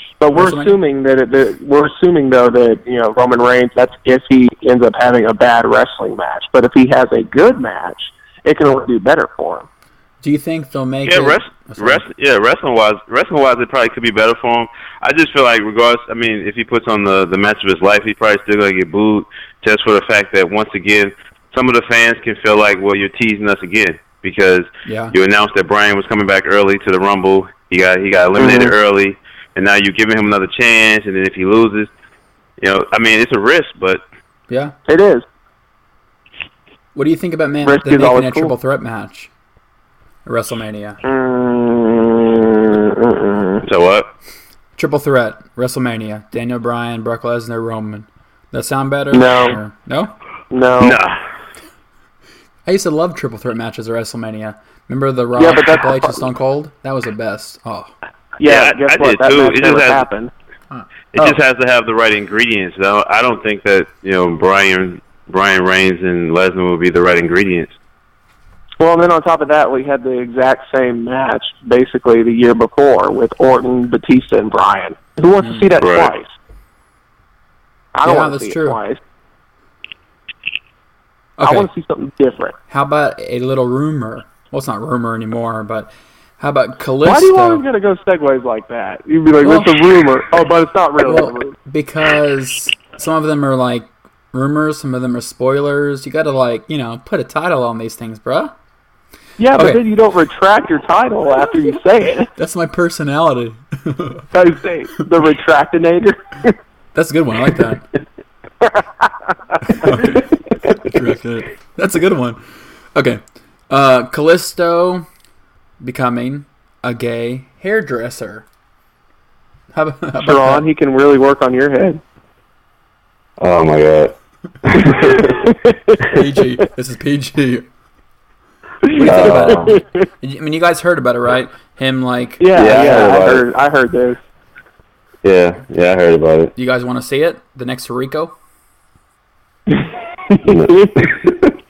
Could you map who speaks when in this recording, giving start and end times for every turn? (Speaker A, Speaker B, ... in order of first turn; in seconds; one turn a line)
Speaker A: 0.2-9.7
Speaker B: 0.4-0.8
Speaker B: 10.2-12.0
Speaker C: 11.1-31.9
Speaker B: 24.9-25.1
Speaker A: 28.4-28.7
Speaker C: 32.6-34.0
Speaker B: 34.5-34.8
Speaker A: 34.9-35.2
Speaker B: 37.0-39.3
Speaker A: 37.6-38.5
Speaker B: 40.2-41.0
Speaker A: 41.0-43.6
Speaker C: 43.6-44.1
Speaker B: 44.8-50.1
Speaker A: 49.1-49.6
Speaker A: 50.5-51.0
Speaker C: 50.8-51.2
Speaker B: 52.7-57.9
Speaker A: 55.4-56.2
Speaker A: 58.4-60.3
Speaker C: 58.4-60.1
Speaker B: 60.7-61.4
Speaker C: 61.1-67.8
Speaker A: 68.8-76.3
Speaker C: 75.8-76.1
Speaker A: 78.0-79.0
Speaker B: 78.0-78.8
Speaker B: 81.4-81.7
Speaker A: 81.4-82.6
Speaker B: 82.7-87.6
Speaker A: 87.0-91.5
Speaker B: 89.4-89.8
Speaker B: 91.0-98.5
Speaker A: 99.4-102.3
Speaker B: 99.6-99.8
Speaker B: 102.4-104.3
Speaker A: 104.3-106.5
Speaker B: 107.0-107.9
Speaker A: 108.6-109.1
Speaker B: 109.6-112.4
Speaker A: 109.8-110.2
Speaker B: 112.9-115.1
Speaker B: 115.8-118.5
Speaker B: 119.7-120.7
Speaker A: 120.2-122.0
Speaker C: 123.4-125.4
Speaker A: 124.9-126.0
Speaker B: 126.0-127.7
Speaker A: 128.9-129.8
Speaker B: 128.9-132.4
Speaker C: 129.0-129.7
Speaker A: 132.4-134.2
Speaker C: 132.6-133.4
Speaker C: 135.2-136.5
Speaker B: 136.6-138.3
Speaker A: 140.3-141.1
Speaker C: 140.5-141.3